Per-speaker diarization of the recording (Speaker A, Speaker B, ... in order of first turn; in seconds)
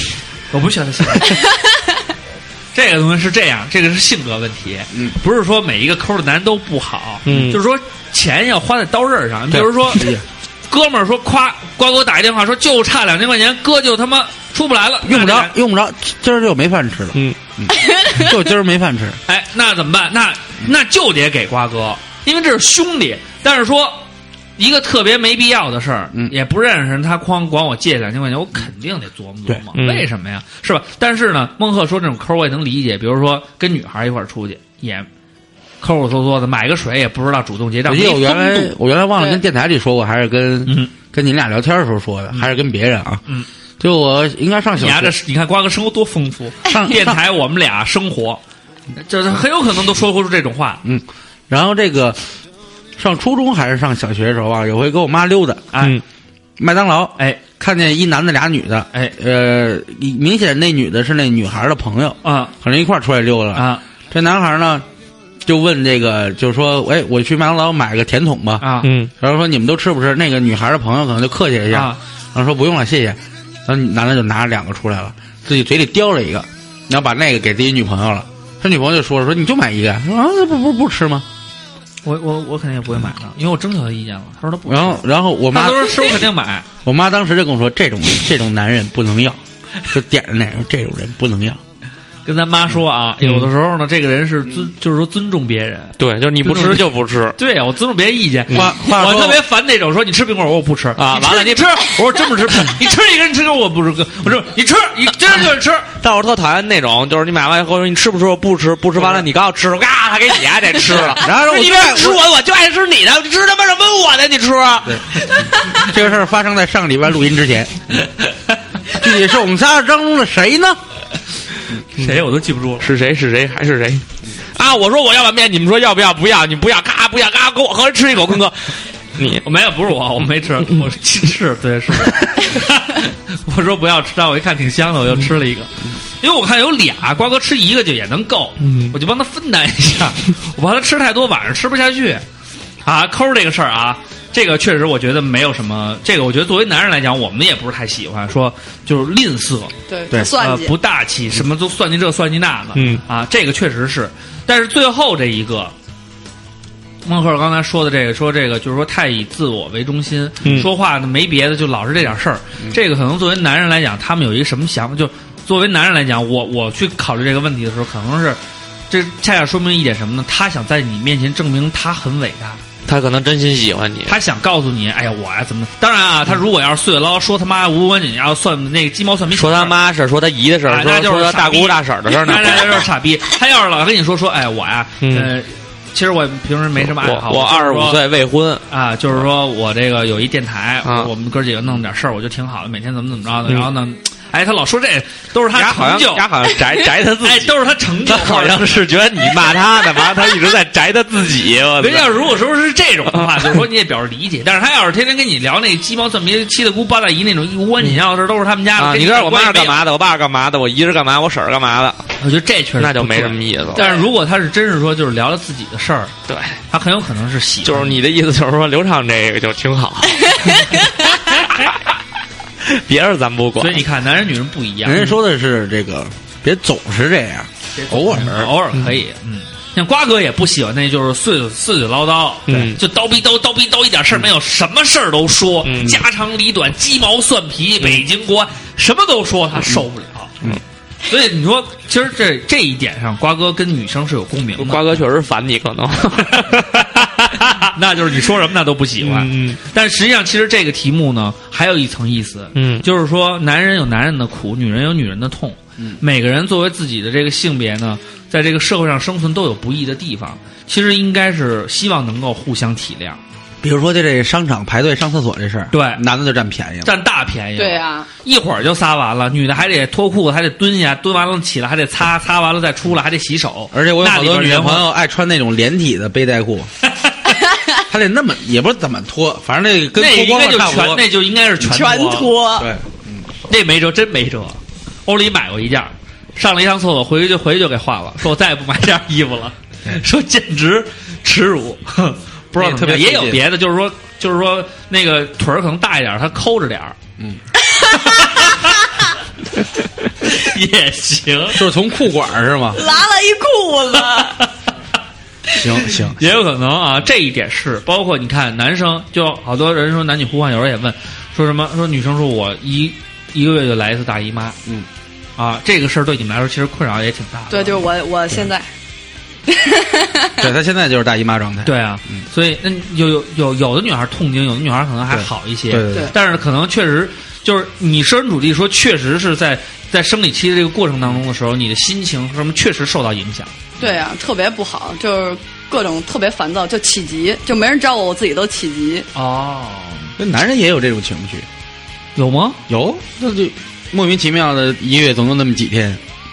Speaker A: 0.5-1.4, 2.7-10.2, 10.7-15.5, 19.3-24.0, 24.6-35.1, 35.8-38.7, 40.7-40.9, 44.8-48.4, 49.0-50.8, 55.7-56.0, 62.2-62.5, 63.5-63.8, 68.6-68.9, 71.7-72.0, 82.0-86.7, 92.2-105.9, 122.0-122.9, 129.4-142.2, 142.8-149.7, 150.3-155.7, 157.1-172.6, 174.1-179.8, 180.7-188.0, 188.7-196.3, 197.2-198.8, 201.8-209.8, 212.2-216.1, 216.7-218.0, 223.6-225.2, 227.8-240.5, 241.1-245.0, 246.3-263.2, 265.7-266.0, 266.8-274.9, 280.0-282.4, 283.5-297.0, 297.9-298.8, 300.2-301.6, 305.9-314.6, 315.4-317.9, 321.6-333.5, 339.1-340.1, 342.2-342.6
Speaker B: 7.3-7.6, 29.8-30.1, 68.8-69.1, 93.2-93.5, 96.0-97.4, 101.0-102.7, 106.0-115.7, 122.8-129.4, 138.6-139.0, 152.8-153.0, 160.4-160.7, 172.9-174.2, 179.3-182.9, 185.0-185.3, 186.8-188.6, 190.8-191.1, 195.5-202.1, 203.1-203.6, 208.8-212.1, 212.8-213.9, 216.3-216.6, 217.6-221.8, 222.6-223.9, 232.5-232.8, 235.6-236.0, 244.6-247.7, 249.0-249.6, 252.6-252.8
Speaker C: 7.3-7.5, 9.5-10.2, 15.0-19.2, 37.9-43.2, 43.8-45.1, 46.7-47.2, 50.8-52.2, 53.0-55.6, 56.6-64.8, 65.5-68.7, 69.2-81.3, 84.7-86.2, 86.8-91.6, 98.5-99.4, 111.2-112.2, 115.7-117.8, 118.9-120.8, 224.8-228.5, 263.6-266.9, 273.7-276.7, 277.9-281.1, 282.6-283.2, 292.5-293.4, 301.5-302.8, 305.5-306.2, 320.4-322.2, 325.1-326.1, 340.2-341.5, 342.7-346.0
Speaker D: 149.9-150.8, 213.8-214.1, 267.6-268.1, 277.4-277.8, 281.6-282.7, 297.7-298.4, 302.7-304.4, 317.5-318.6, 319.5-320.5, 333.8-339.1